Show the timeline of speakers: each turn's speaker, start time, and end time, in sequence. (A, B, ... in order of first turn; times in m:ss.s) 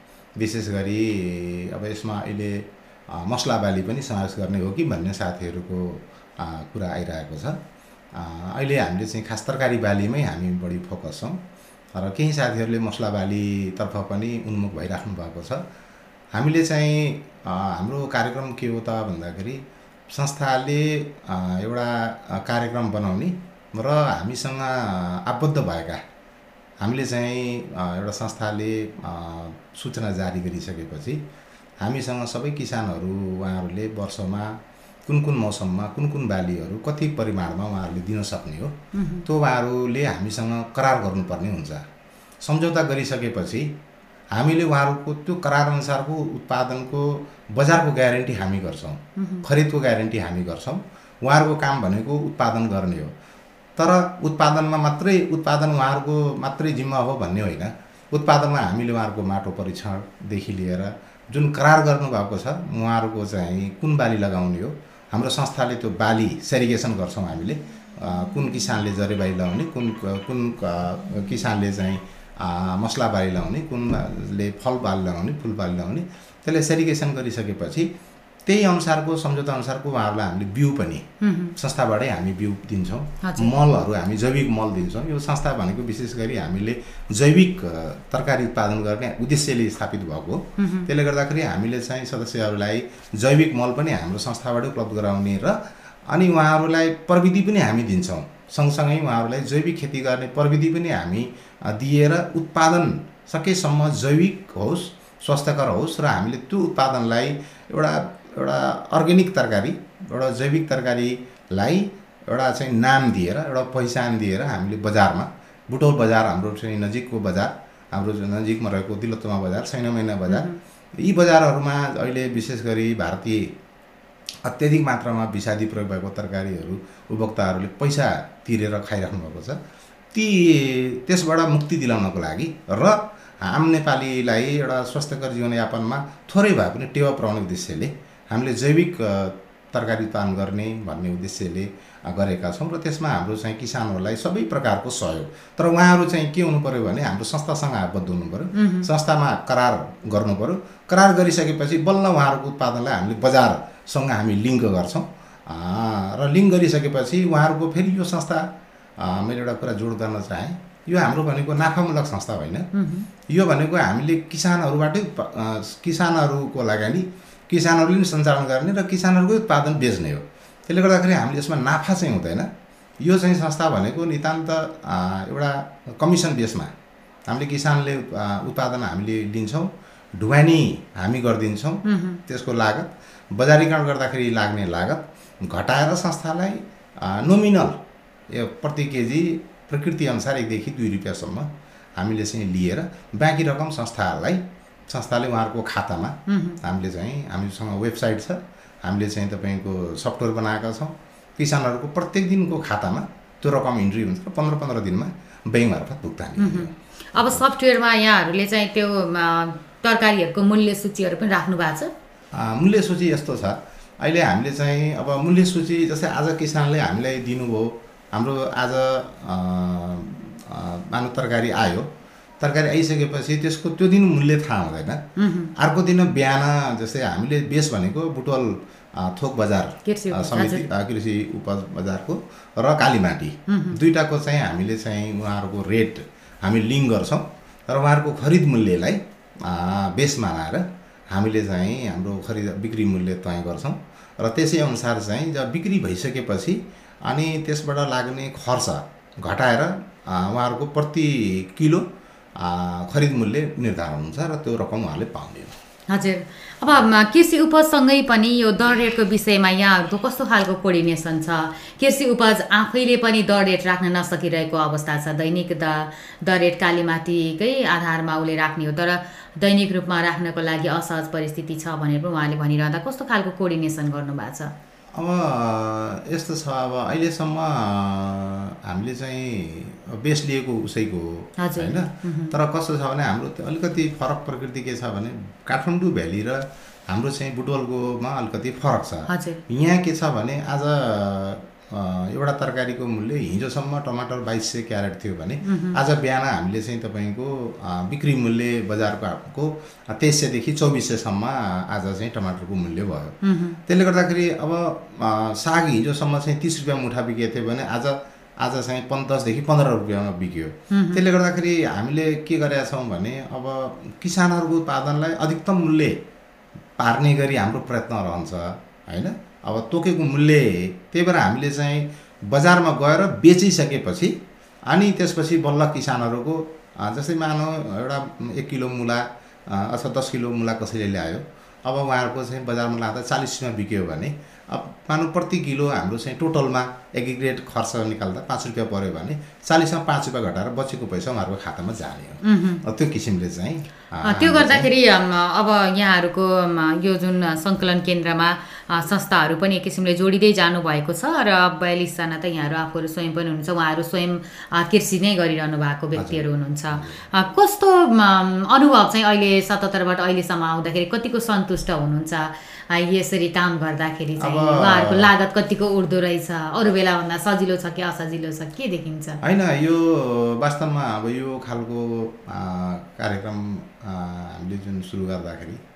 0:00.4-0:07.6 A
0:08.1-0:11.4 A
0:11.9-0:15.6 A
0:16.3-0:26.0 A
0:26.8-0:31.2 A
0:31.8-0:41.8 A
0:38.9-0:39.3 B
0:42.4-0:43.7 A
0:44.3-0:53.1 A
0:49.2-0:49.5 B
0:53.8-1:17.9 A
1:18.4-2:03.5 A
1:21.2-1:21.6 B
1:23.2-1:23.6 B
1:30.6-1:30.9 B
2:00.3-2:00.6 B
2:04.4-2:09.6 A
2:10.1-2:42.7 A
2:28.5-2:28.9 B
2:42.7-2:43.1 B
2:43.3-2:52.5 A
2:53.0-2:56.7 A
2:57.3-3:27.4 A
3:01.8-3:02.2 B
3:16.3-3:16.6 B
3:26.4-3:31.9 B
3:32.3-3:45.0 A
3:45.2-3:45.5 B
3:45.6-4:15.6 A
3:49.8-3:50.7 B
3:53.5-3:53.8 B
4:15.9-4:34.5 B
4:34.9-5:16.0 A
4:41.4-4:42.3 B
4:49.1-4:49.4 B
4:55.4-4:55.8 B
5:03.2-5:03.6 B
5:10.7-5:11.0 B
5:16.8-5:24.1 A
5:24.7-5:44.7 A
5:42.2-5:42.6 B
5:44.0-6:09.2 B
5:55.9-5:57.0 A
6:04.2-6:05.1 A
6:09.2-6:15.6 A